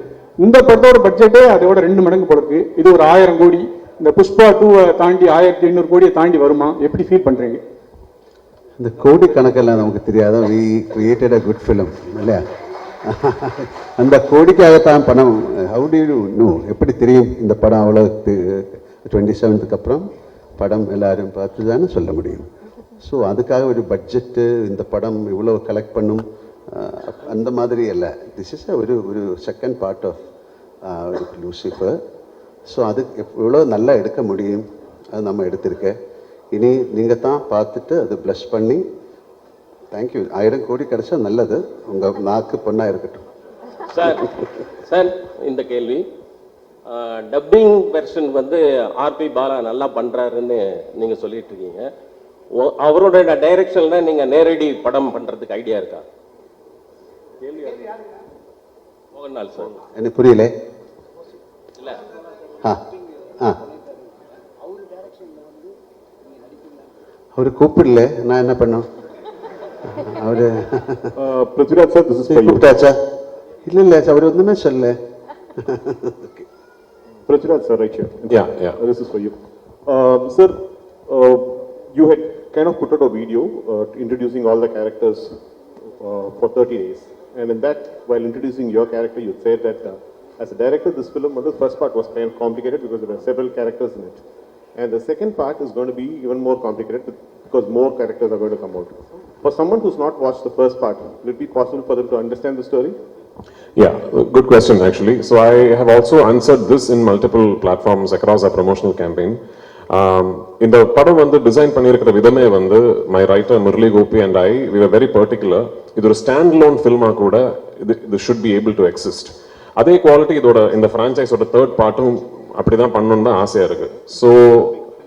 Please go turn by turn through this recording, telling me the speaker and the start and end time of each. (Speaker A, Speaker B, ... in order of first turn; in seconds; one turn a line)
Speaker A: 0.4-7.6
Speaker B: 8.8-12.4
Speaker B: 13.0-20.1
Speaker B: 20.6-22.5
Speaker B: 23.0-30.2
Speaker B: 30.9-32.0
Speaker B: 32.7-36.0
Speaker B: 36.5-38.8
Speaker B: 39.9-43.2
Speaker C: 43.9-44.3
Speaker C: 44.9-46.0
Speaker C: 46.9-51.9
Speaker C: 52.5-56.0
Speaker C: 59.1-59.8
Speaker B: 59.9-60.5
Speaker B: 67.3-68.9
Speaker B: 70.0-71.1
Speaker D: 71.2-72.8
Speaker B: 72.3-73.0
Speaker B: 73.6-74.9
Speaker B: 75.6-76.4
Speaker D: 77.3-85.4
Speaker E: 78.3-78.8
Speaker D: 86.0-94.2
Speaker D: 94.7-103.0
Speaker E: 103.8-124.8